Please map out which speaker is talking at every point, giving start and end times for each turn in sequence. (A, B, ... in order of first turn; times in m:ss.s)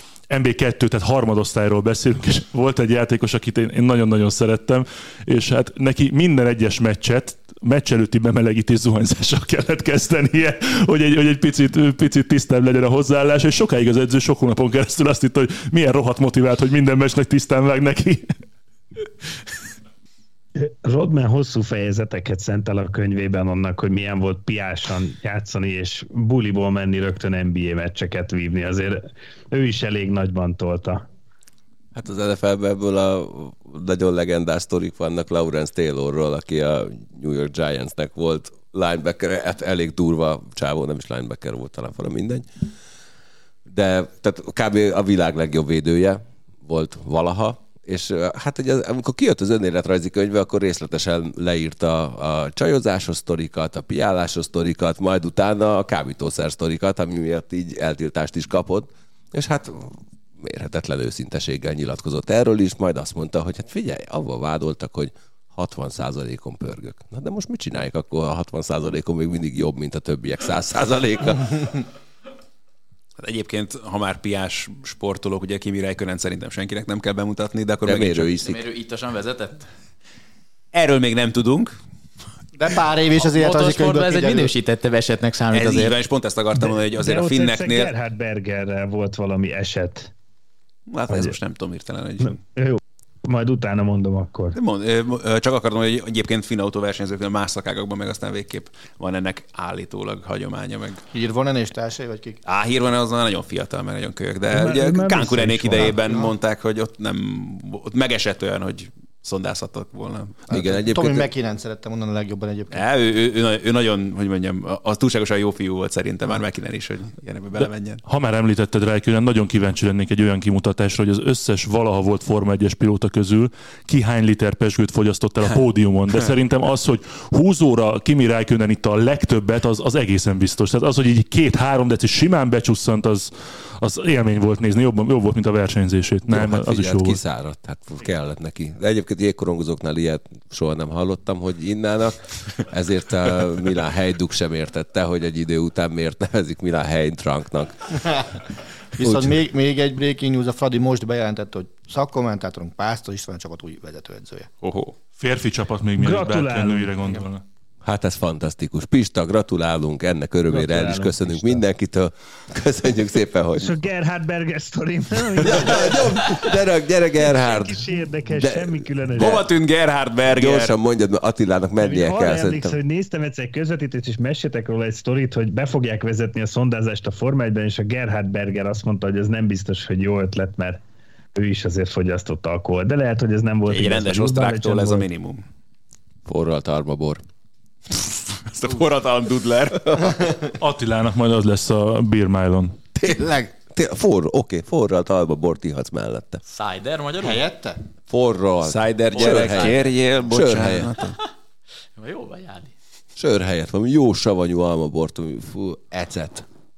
0:00.3-0:18.4 A
0:20.6-0:31.0 B
0:31.9-0:42.5 C
0:43.7-1:11.8 C
1:13.2-1:18.4 D
1:17.8-1:18.6 C
1:18.4-1:19.7 E
1:20.7-1:21.7 D
1:22.6-1:24.5 F
1:23.2-1:26.0 E
1:25.5-1:27.9 D
1:26.7-1:30.1 B
1:30.9-1:32.4 D
1:31.1-1:31.3 B
1:32.2-1:34.6 B
1:34.5-1:41.0 D
1:41.1-1:42.4 F
1:42.4-1:50.6 D
1:44.5-1:46.0 B
1:50.5-1:51.3 C
1:50.5-1:52.8 F
1:52.7-1:58.0 D
1:57.6-2:17.2 A
2:16.3-2:28.4 C
2:29.0-2:34.5 F
2:29.0-2:29.4 C
2:34.6-2:35.0 D
2:35.2-2:37.4 A
2:36.0-2:36.9 B
2:37.8-2:43.9 C
2:40.5-2:41.6 B
2:43.6-2:46.5 B
2:45.4-2:48.9 C
2:47.2-2:49.5 B
2:49.1-2:50.8 D
2:50.3-2:52.8 C
2:51.8-3:00.8 B
3:01.4-3:05.1 B
3:03.6-3:05.4 D
3:06.2-3:07.2 C
3:07.9-3:10.3 D
3:10.6-3:12.8 A
3:12.9-3:16.4 C
3:16.5-3:17.4 E
3:17.2-3:17.8 F
3:18.1-3:21.0 C
3:18.6-3:21.2 D
3:19.1-3:19.7 E
3:22.0-3:22.7 E
3:23.2-3:26.4 C